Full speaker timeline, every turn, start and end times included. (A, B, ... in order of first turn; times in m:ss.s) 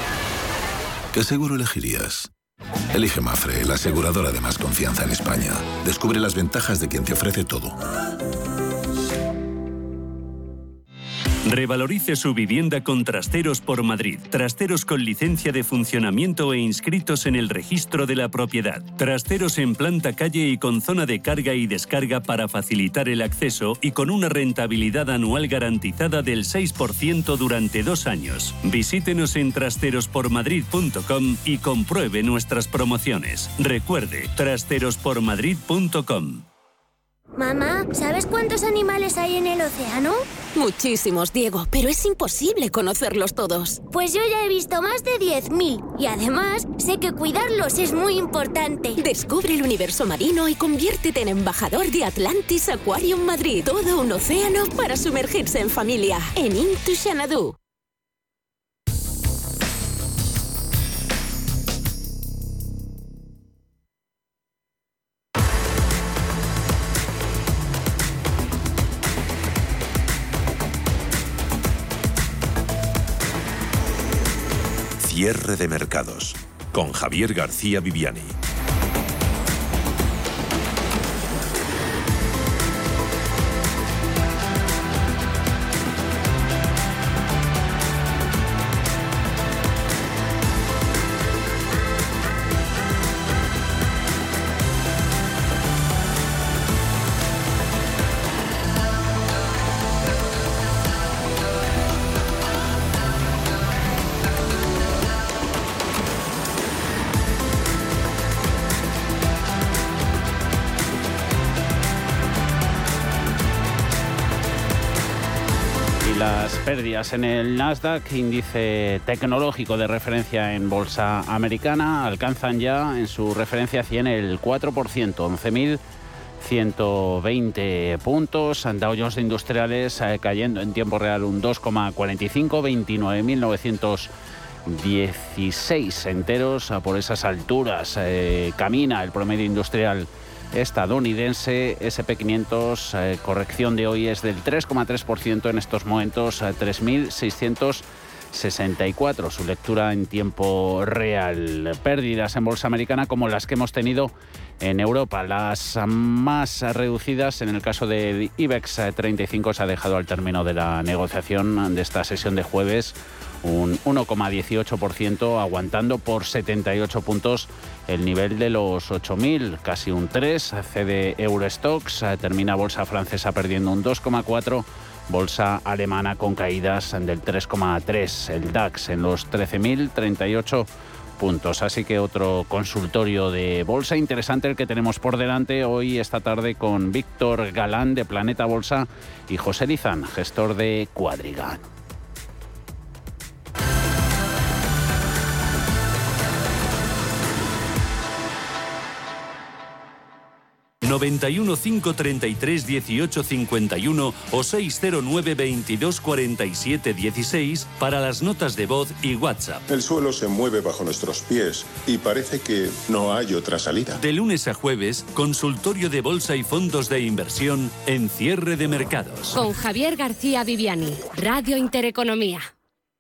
0:01.1-0:02.3 A
0:02.9-0:07.8 A
0:11.4-0:36.5 B
0:37.4-0:40.2 C
0:40.6-0:43.8 D
0:43.9-0:49.0 C
0:49.0-0:57.6 D
1:15.0-1:18.4 E
1:56.0-2:05.8 F
2:06.4-2:14.1 F
2:14.6-3:11.6 F
3:20.8-3:29.6 B
3:29.7-3:34.0 G
3:34.0-3:39.4 B
3:39.3-3:42.5 H